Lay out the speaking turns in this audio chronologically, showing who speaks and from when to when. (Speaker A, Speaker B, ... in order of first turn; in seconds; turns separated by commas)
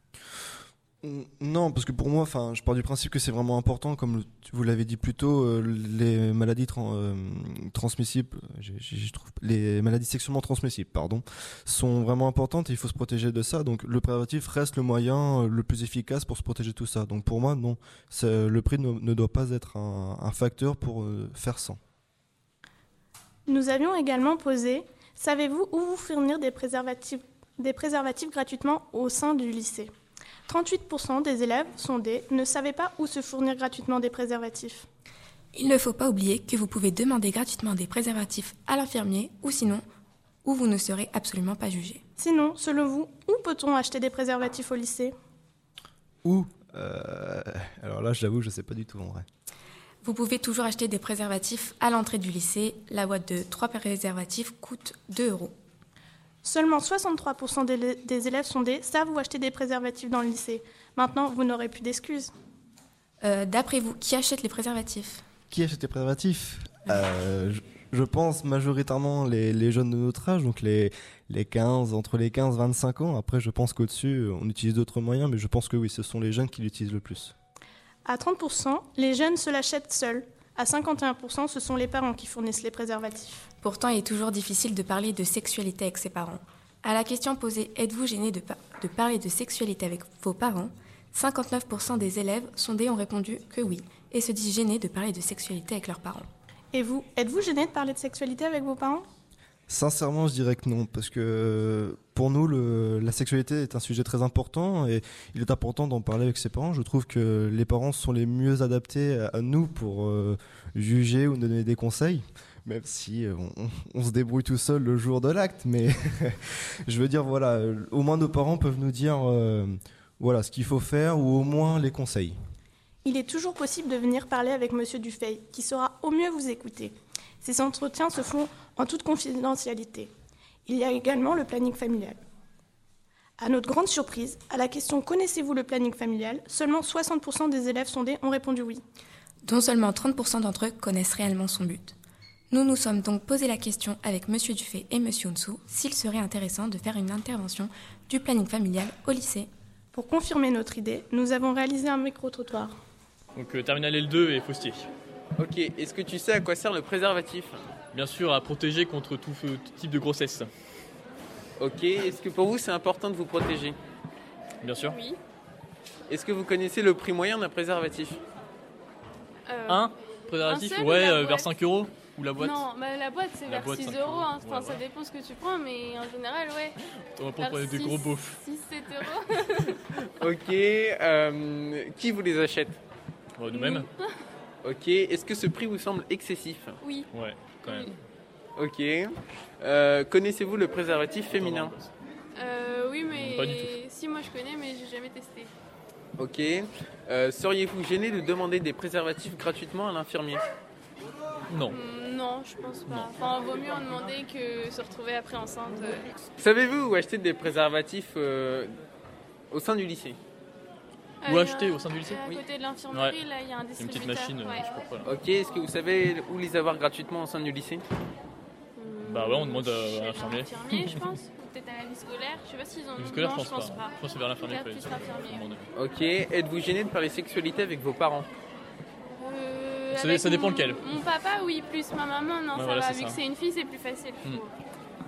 Speaker A: 1.0-21.8, Speaker B: 23.5-29.9, Speaker B: 30.5-34.9, Speaker C: 35.5-39.8, Speaker C: 40.4-42.0, Speaker B: 42.2-45.1, Speaker A: 46.2-49.2, Speaker C: 50.0-55.5, Speaker B: 56.4-62.3, Speaker C: 63.2-65.2, Speaker A: 65.5-77.3, Speaker B: 78.0-83.4, Speaker C: 83.6-96.3, Speaker B: 96.7-99.0, Speaker A: 99.7-122.4, Speaker B: 123.0-130.1, Speaker B: 130.7-132.2, Speaker B: 133.4-138.8, Speaker C: 139.4-141.9, Speaker C: 142.5-149.5, Speaker B: 149.9-152.7, Speaker D: 153.4-154.9, Speaker E: 155.4-157.6, Speaker D: 157.9-160.5, Speaker E: 161.6-163.8, Speaker D: 164.6-165.0, Speaker F: 164.8-165.2, Speaker E: 166.1-168.2, Speaker F: 169.5-169.9, Speaker D: 169.7-172.6, Speaker F: 170.4-171.5, Speaker F: 172.4-176.8, Speaker D: 173.4-174.8, Speaker D: 177.2-178.4, Speaker F: 177.4-179.8, Speaker E: 180.0-182.8, Speaker D: 183.4-183.9, Speaker F: 183.5-184.0, Speaker E: 184.6-186.8, Speaker F: 186.8-187.1, Speaker D: 187.1-188.0, Speaker E: 188.6-191.8, Speaker D: 191.3-191.9, Speaker F: 192.4-195.5, Speaker D: 193.1-193.7, Speaker E: 196.2-200.4, Speaker D: 201.5-201.8, Speaker F: 201.7-206.1, Speaker E: 206.4-208.7, Speaker E: 209.5-210.2, Speaker F: 211.2-214.7, Speaker D: 211.2-212.4, Speaker D: 212.9-213.2, Speaker D: 213.8-215.1, Speaker E: 215.1-217.8, Speaker F: 218.8-225.4, Speaker D: 219.1-221.0, Speaker D: 223.0-225.7, Speaker E: 225.7-228.3, Speaker F: 229.2-234.5, Speaker D: 229.9-230.9, Speaker D: 232.5-233.2